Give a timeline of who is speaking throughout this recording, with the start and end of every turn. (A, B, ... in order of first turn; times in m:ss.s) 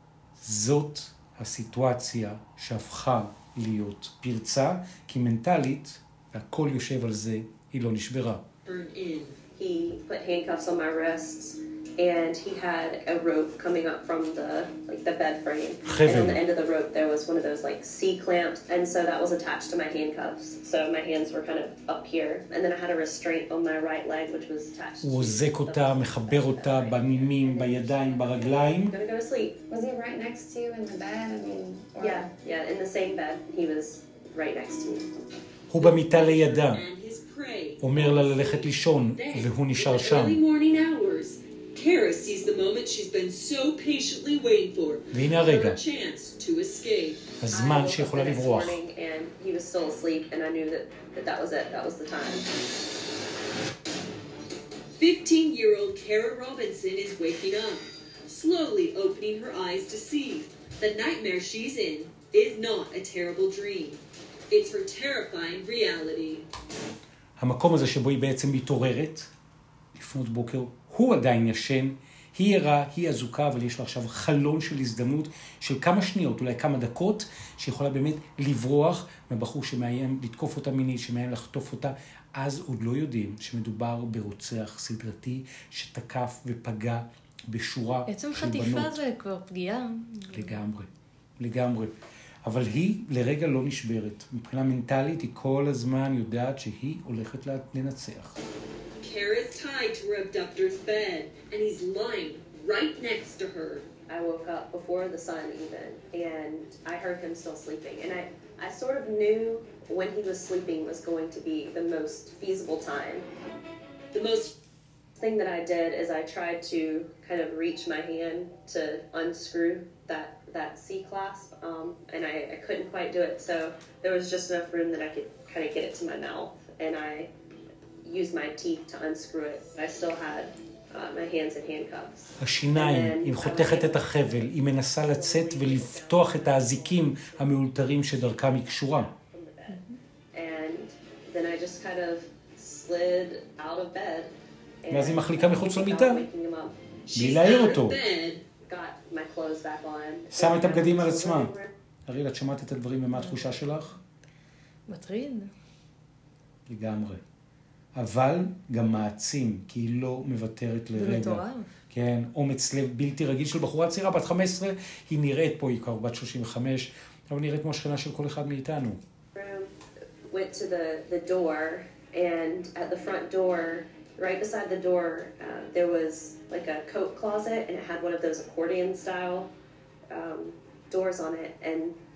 0:00.4-0:08.4 A
0:08.6-0:09.4 B
0:09.6-0:29.6 C
0:15.8-0:16.4 A
0:25.0-0:28.9 A
0:29.7-0:32.3 D
0:32.0-0:35.1 C
0:35.7-0:36.8 A
0:35.8-0:47.2 B
0:37.8-0:40.4 A
0:45.1-0:45.8 A
0:47.4-0:48.8 A
0:47.5-0:52.5 C
0:54.9-1:06.5 B
1:07.4-1:09.3 A
1:09.9-1:29.0 A
1:28.1-1:30.6 E
1:30.3-1:31.9 A
1:32.4-1:38.4 A
1:39.0-1:43.8 B
1:44.1-1:53.2 C
1:54.1-1:54.5 B
1:55.2-2:07.3 C
2:08.0-2:19.8 C
2:12.4-2:19.1 A
2:19.7-2:19.9 E
2:20.3-2:24.3 C
2:24.8-2:26.7 C
2:24.9-2:26.2 A
2:27.1-2:28.4 B
2:27.1-2:28.0 A
2:28.6-2:31.7 C
2:30.3-2:31.5 A
2:32.1-2:34.0 A
2:33.1-2:33.8 E
2:34.9-2:35.5 E
2:36.7-2:37.2 A
2:37.9-2:49.0 A
2:40.9-2:41.7 E
2:49.3-2:49.7 C
2:50.3-2:59.5 C
3:00.1-3:02.0 C